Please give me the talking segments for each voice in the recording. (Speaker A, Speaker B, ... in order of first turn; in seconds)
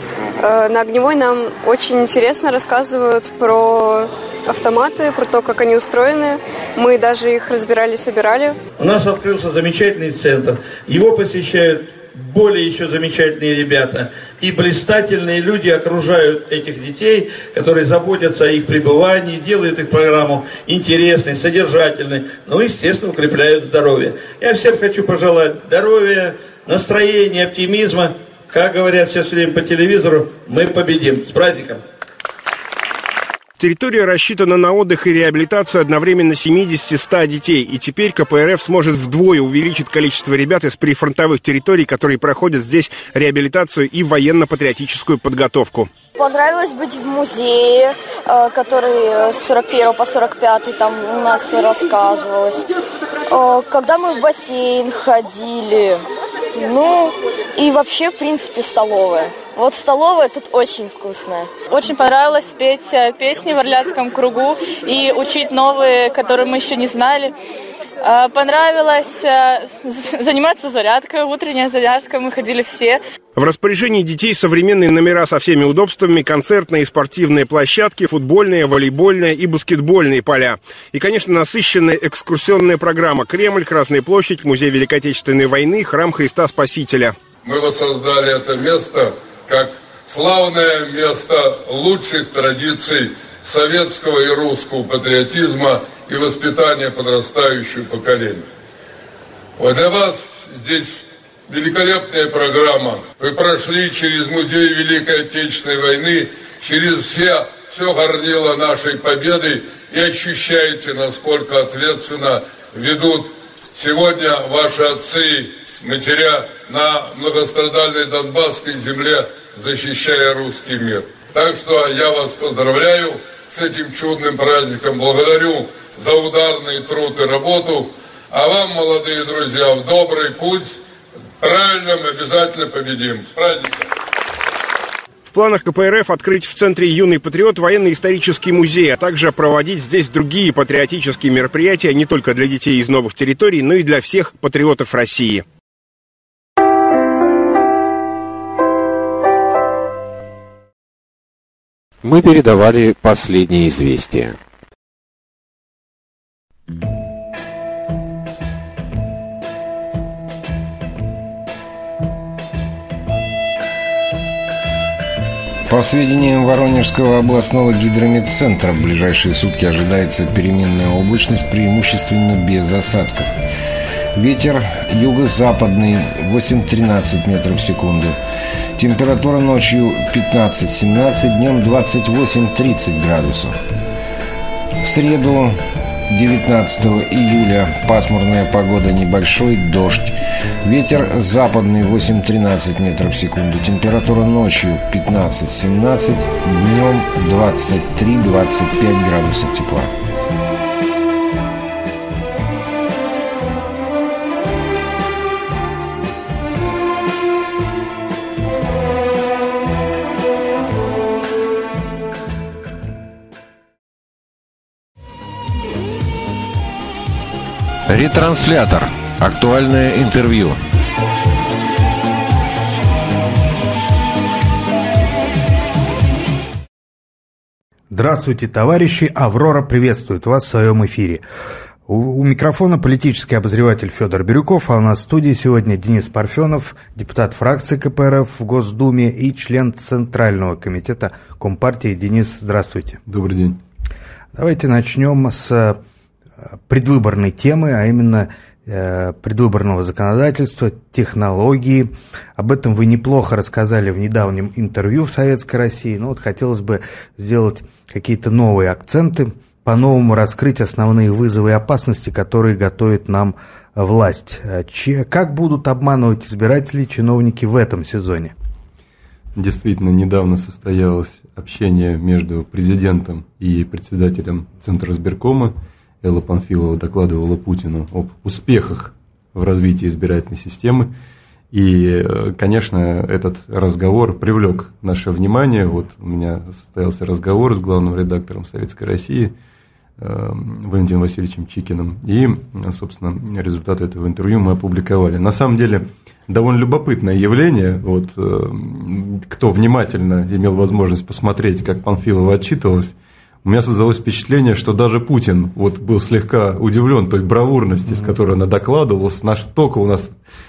Speaker A: 0.4-8.6
Speaker B: 8.8-31.8
Speaker C: 33.6-45.9, 73.4-87.2, 135.3-145.4
Speaker D: 46.2-52.7, 53.3-61.5
Speaker E: 61.7-67.3, 68.0-73.0
Speaker F: 87.4-98.5, 99.6-130.8, 131.4-133.9
Speaker G: 165.7-173.3, 174.2-178.2, 178.8-183.6, 184.8-199.9
Speaker H: 217.9-220.6
Speaker I: 227.9-231.2, 231.9-243.0, 244.3-245.8, 246.7-268.3
Speaker J: 243.1-243.6, 269.4-280.9, 281.5-289.3, 290.0-310.1